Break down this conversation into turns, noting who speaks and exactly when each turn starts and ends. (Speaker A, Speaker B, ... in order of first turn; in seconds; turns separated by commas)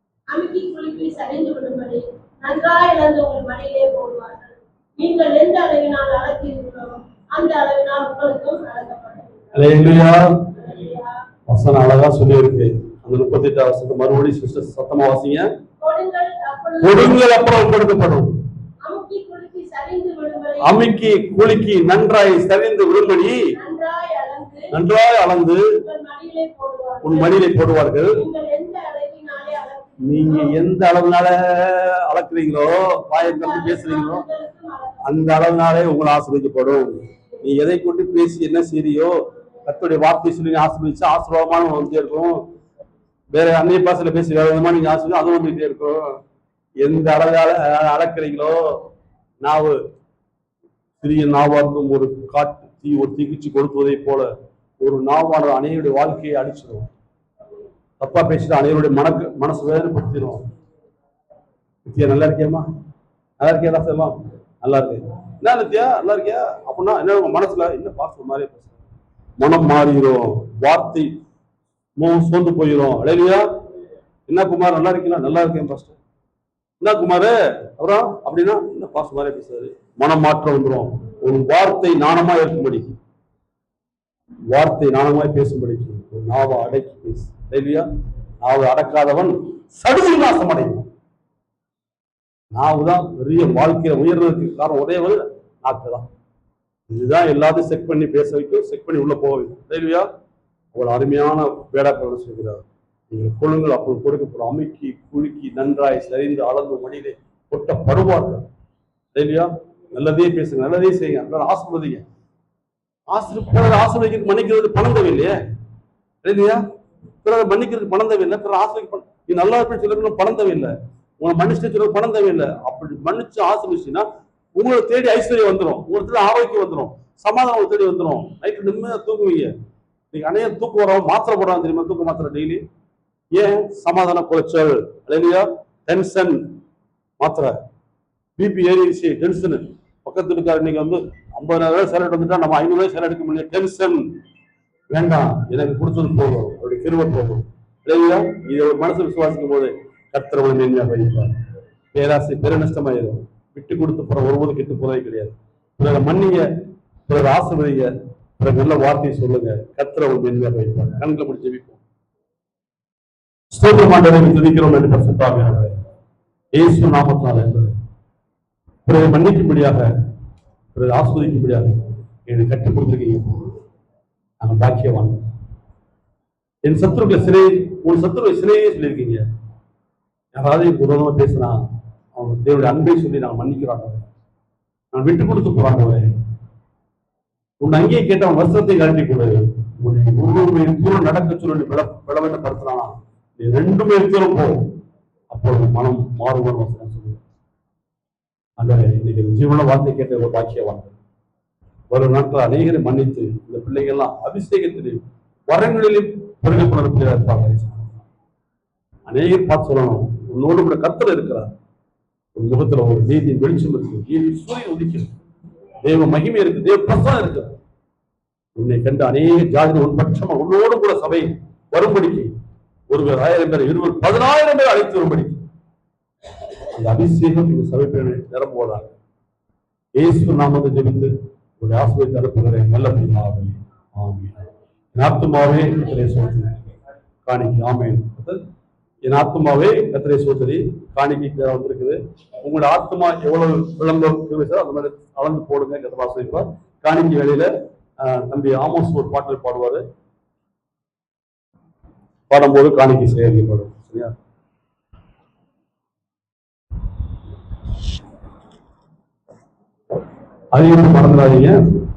Speaker A: 0.3-9.5, Speaker B: 9.5-10.3, Speaker A: 10.6-11.2, Speaker B: 11.5-15.5, Speaker A: 15.8-17.2, Speaker B: 16.8-18.3, Speaker A: 18.8-20.8, Speaker B: 20.6-23.4, Speaker A: 23.6-24.7, Speaker B: 24.7-25.7, Speaker A: 25.8-27.5, Speaker B: 27.0-28.2, Speaker A: 28.1-30.6, Speaker B: 30.0-34.2, Speaker A: 33.2-35.0, Speaker B: 35.0-42.4, Speaker B: 43.3-46.1, Speaker B: 46.8-48.6, Speaker B: 49.4-49.8, Speaker B: 51.0-54.3, Speaker B: 54.8-56.9, Speaker B: 58.0-60.4, Speaker B: 61.9-62.7, Speaker B: 63.4-68.8, Speaker B: 69.4-71.1, Speaker B: 72.0-73.5, Speaker B: 74.3-76.0, Speaker B: 76.8-83.0, Speaker B: 84.5-87.9, Speaker B: 88.4-90.9, Speaker B: 92.5-96.1, Speaker B: 96.9-100.1, Speaker B: 100.7-108.5, Speaker B: 109.2-112.0, Speaker B: 113.1-115.4, Speaker B: 116.2-116.6, Speaker B: 117.2-129.5, Speaker B: 130.1-132.6, Speaker B: 133.3-136.4, Speaker B: 137.2-137.5, Speaker B: 138.4-144.1, Speaker B: 144.9-151.3, Speaker B: 151.9-156.5, Speaker B: 157.1-161.8, Speaker B: 163.5-165.8, Speaker B: 166.5-167.8, Speaker B: 168.9-169.9, Speaker B: 170.7-173.4, Speaker B: 174.4-175.2, Speaker B: 176.7-179.2, Speaker B: 180.3-181.6, Speaker B: 182.2-184.0, Speaker B: 184.9-186.1, Speaker B: 187.6-194.6, Speaker B: 195.3-197.2, Speaker B: 198.6-200.9, Speaker B: 201.9-208.1, Speaker B: 209.1-211.5, Speaker B: 212.4-215.1, Speaker B: 215.8-217.5, Speaker B: 218.6-222.3, Speaker B: 222.9-225.4, Speaker B: 226.7-228.9, Speaker B: 230.0-236.5, Speaker B: 237.3-238.4, Speaker B: 239.1-249.8, Speaker B: 252.3-254.1, Speaker B: 260.5-261.6